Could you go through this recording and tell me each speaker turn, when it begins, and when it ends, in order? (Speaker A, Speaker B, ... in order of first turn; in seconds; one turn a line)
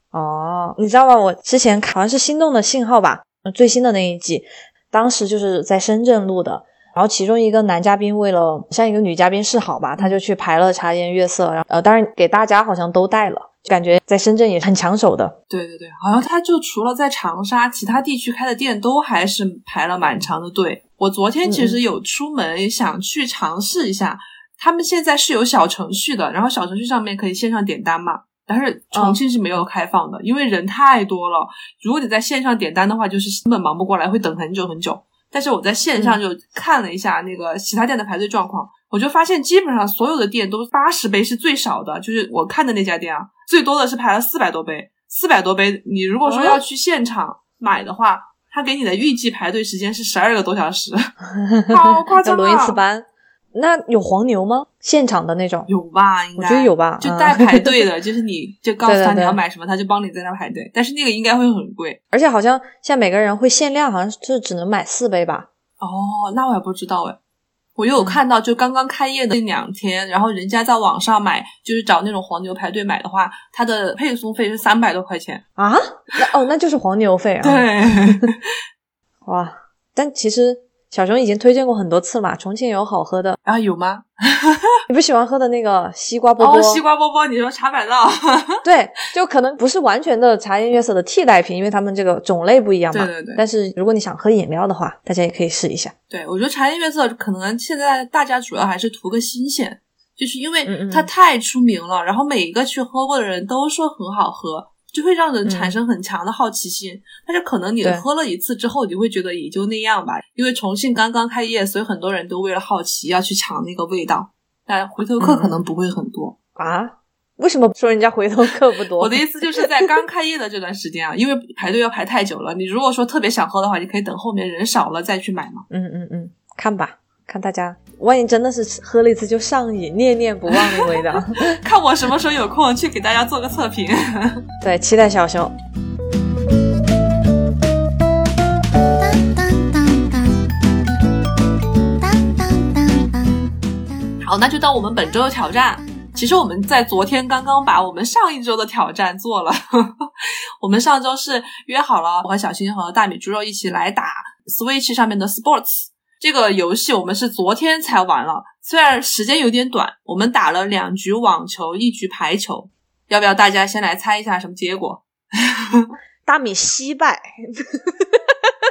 Speaker A: 0.1-15.3
Speaker B: 15.5-51.1
Speaker A: 21.4-21.8
Speaker A: 28.9-29.2
Speaker A: 46.2-46.6
Speaker A: 51.4-55.7
Speaker B: 51.7-52.8
Speaker B: 55.7-62.0
Speaker A: 56.4-57.8
Speaker A: 58.9-59.4
Speaker A: 62.1-65.5
Speaker B: 65.8-67.2
Speaker B: 67.8-75.4
Speaker A: 75.6-78.2
Speaker B: 77.4-78.5
Speaker A: 79.2-83.4
Speaker B: 83.4-84.8
Speaker A: 84.9-86.8
Speaker B: 86.4-88.6
Speaker A: 88.6-95.9
Speaker B: 92.9-93.4
Speaker B: 96.1-116.3
Speaker A: 100.7-101.1
Speaker A: 105.5-105.8
Speaker A: 115.2-115.6
Speaker A: 116.5-119.9
Speaker B: 119.0-125.6
Speaker A: 125.7-131.6
Speaker B: 130.5-134.4
Speaker A: 134.6-135.5
Speaker C: 138.9-140.7
Speaker C: 141.9-143.7
Speaker B: 144.2-150.1
Speaker B: 150.6-165.9
Speaker A: 166.2-168.5